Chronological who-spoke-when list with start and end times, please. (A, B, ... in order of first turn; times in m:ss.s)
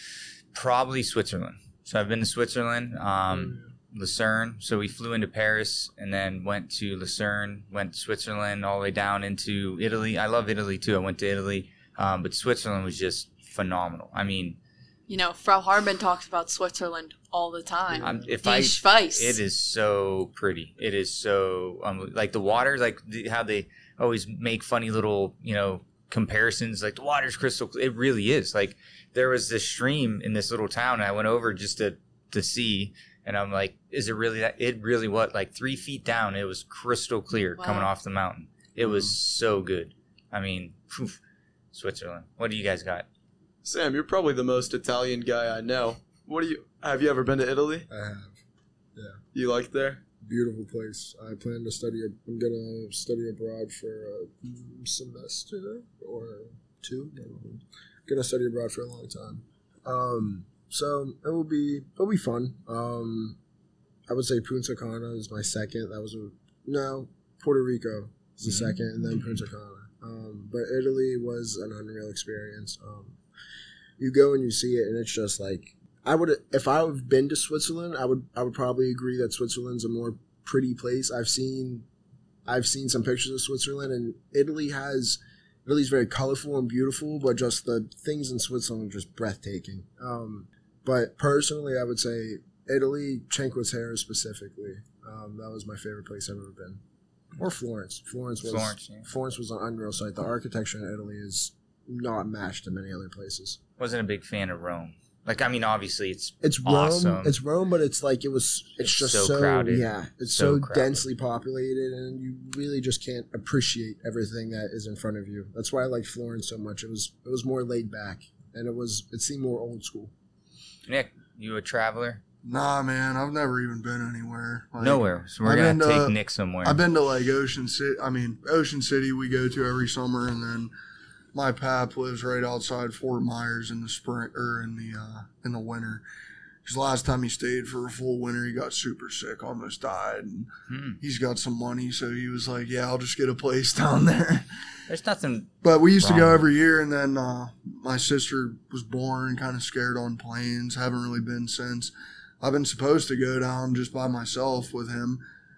0:00.5-0:14.6 A
0:03.3-0:03.6 B
0:15.1-0:19.4 C
0:17.9-0:18.3 B
0:18.0-0:41.2 A
0:37.6-0:37.9 C
0:38.8-0:39.1 B
0:41.7-0:43.0 A
0:43.6-0:47.9 D
0:47.9-0:48.4 B
0:49.0-0:49.2 B
0:49.3-0:50.0 D
0:50.2-1:03.4 B
1:04.1-1:13.2 B
1:14.0-1:21.8 B
1:22.5-1:36.8 B
1:37.4-1:43.6 B
1:38.4-1:39.1 A
1:43.8-1:47.4 A
1:46.4-2:00.1 B
1:48.8-1:51.0 A
2:00.9-2:02.2 A
2:02.4-2:10.7 E
2:04.8-2:06.8 A
2:11.3-2:16.0 E
2:16.6-2:20.5 E
2:20.7-2:21.0 A
2:21.0-2:24.7 E
2:24.9-2:26.4 A
2:25.6-2:35.2 E